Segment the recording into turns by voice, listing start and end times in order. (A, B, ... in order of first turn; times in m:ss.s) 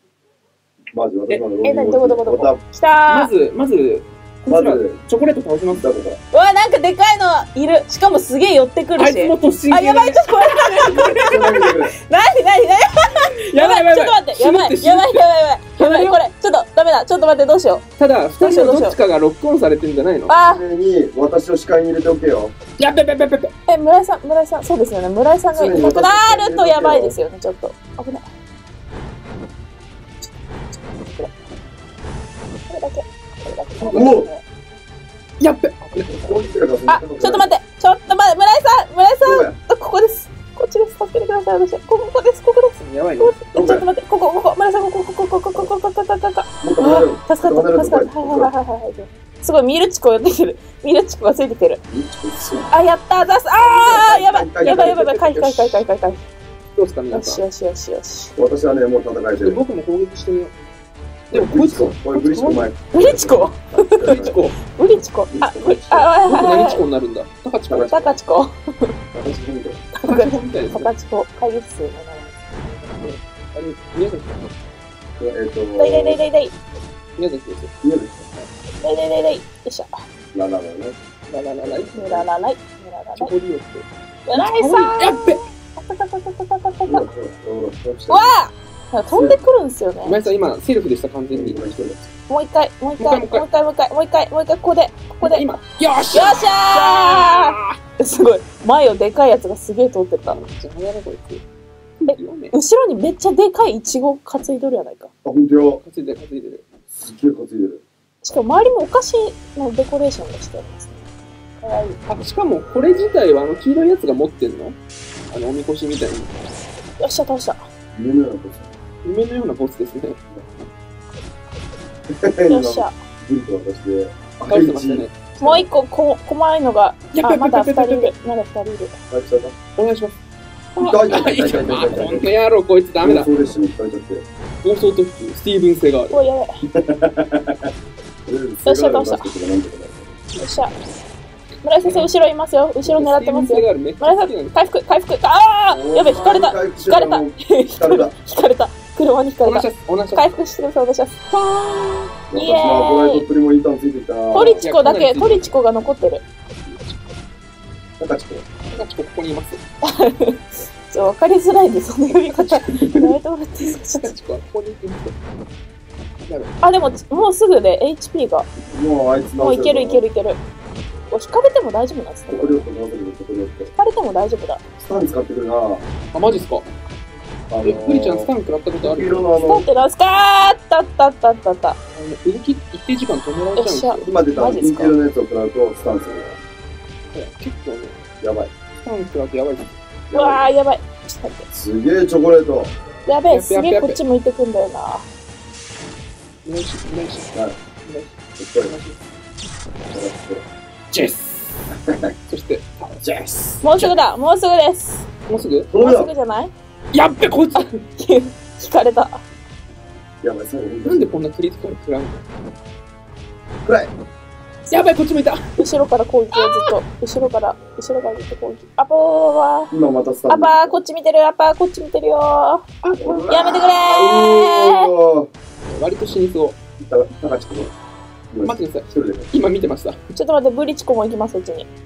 0:00.9-0:02.6 A
0:01.6-0:03.3 B
0:03.1-0:06.0 C
0:04.5-0:05.0 A
0:05.7-0:06.2 A
0:06.3-0:17.9 B
0:09.0-0:11.6 C
0:11.2-0:12.0 A
0:13.4-0:15.3 C
0:15.8-0:16.1 C
0:18.0-0:20.4 C
0:18.4-0:19.0 B
0:20.3-0:20.6 B
0:20.4-0:22.5 A
0:22.8-0:23.5 C
0:23.7-0:28.3 B
0:25.5-0:27.2 A
0:32.7-0:34.4 B
0:33.8-0:34.1 C
0:33.9-0:34.3 A
0:35.4-0:36.5 C
0:36.1-0:37.5 A
0:36.9-0:51.8 B
0:39.2-0:39.6 A
0:42.8-0:43.4 C
0:43.5-0:43.8 A
0:46.6-0:48.5 A
0:51.9-0:52.8 A
0:52.7-0:56.2 B
0:53.6-0:55.1 A
0:54.6-0:55.8 C
0:56.8-0:57.4 C
0:57.1-0:58.3 B
0:58.4-0:59.6 A
0:59.4-1:00.5 C
1:01.3-1:04.4 A
1:01.3-1:02.7 C
1:02.9-1:06.8 B
1:04.1-1:04.6 C
1:05.3-1:06.1 A
1:06.2-1:08.2 C
1:07.7-1:08.0 A
1:07.7-1:08.9 B
1:09.1-1:09.9 A
1:10.0-1:12.8 B
1:10.0-1:10.9 C
1:12.9-1:14.5 C
1:15.2-1:16.2 A
1:15.8-1:16.6 B
1:17.2-1:17.7 C
1:17.8-1:18.5 A
1:18.8-1:20.0 B
1:20.3-1:21.0 A
1:21.3-1:22.0 C
1:21.6-1:22.3 A
1:21.9-1:23.3 B
1:23.2-1:25.4 C
1:24.3-1:27.1 B
1:26.8-1:28.4 A
1:28.1-1:30.2 B
1:29.1-1:29.4 A
1:30.0-1:31.6 C
1:31.3-1:32.0 A
1:32.3-1:35.4 B
1:33.0-1:33.5 C
1:35.2-1:37.8 C
1:36.1-1:40.4 B
1:40.3-1:41.4 C
1:42.0-1:42.6 C
1:42.1-1:45.1 B
1:45.2-1:45.8 A
1:45.8-1:46.7 C
1:46.9-1:47.8 A
1:48.2-1:51.0 B
1:51.6-1:52.0 B
1:52.1-1:54.8 C
1:55.3-1:56.4 C
1:57.0-1:57.7 B
1:57.9-1:58.7 A
1:59.0-2:00.2 C
2:02.1-2:05.6 A
2:02.5-2:03.0 B
2:04.4-2:05.6 C
2:05.4-2:09.0 B
2:07.1-2:08.1 C
2:09.1-2:09.6 A
2:09.8-2:10.2 C
2:10.8-2:13.3 C
2:10.8-2:12.3 A
2:13.0-2:14.2 A
2:14.6-2:16.2 C
2:16.1-2:16.6 B
2:16.7-2:17.7 A
2:18.3-2:20.2 A
2:18.6-2:19.3 B
2:20.4-2:20.7 B
2:21.6-2:33.2 B
2:21.8-2:22.1 C
2:22.8-2:24.7 C
2:25.7-2:28.1 A
2:29.4-2:30.3 C
2:32.3-2:34.6 A
2:34.3-2:36.2 B
2:34.4-2:37.2 C
2:38.0-2:38.5 A
2:38.7-2:39.6 C
2:39.8-2:44.1 B
2:42.3-2:43.0 C
2:44.0-2:45.2 C
2:46.3-2:46.5 C
2:46.6-2:48.5 B
2:48.6-2:50.0 A
2:49.4-2:50.4 B
2:51.1-2:52.7 B
2:52.3-2:53.7 A
2:53.8-2:54.6 B
2:54.8-2:55.9 A
2:56.1-2:56.7 C
2:57.5-2:58.3 A
2:57.6-2:59.3 C
2:58.8-2:59.7 A
2:59.4-3:01.8 B
3:02.0-3:04.1 C
3:03.6-3:04.9 B
3:04.0-3:06.3 A
3:07.1-3:08.0 C
3:08.2-3:08.5 A
3:08.8-3:09.8 C
3:10.1-3:10.5 A
3:10.1-3:11.5 B
3:11.5-3:12.7 A
3:13.1-3:15.1 B
3:13.3-3:14.0 C
3:16.4-3:17.3 C
3:17.8-3:19.1 C
3:18.4-3:18.8 A
3:19.9-3:20.4 A
3:20.9-3:21.6 C
3:21.8-3:22.1 A
3:22.3-3:23.9 C
3:23.6-3:25.1 B
3:25.3-3:25.7 C
3:25.7-3:26.1 A
3:25.8-3:26.5 B
3:26.9-3:27.8 C
3:27.6-3:29.2 B
3:30.2-3:31.2 A
3:30.8-3:32.3 C
3:33.6-3:33.9 A
3:34.7-3:35.6 C
3:35.6-3:39.7 B
3:36.3-3:36.7 C
3:39.7-3:40.8 A
3:40.3-3:42.6 B
3:42.8-3:43.3 C
3:43.0-3:45.3 A
3:43.3-3:44.9 B
3:45.7-3:46.6 C
3:46.8-3:47.7 A
3:48.3-3:49.3 A
3:48.4-3:50.0 C
3:50.2-3:51.7 B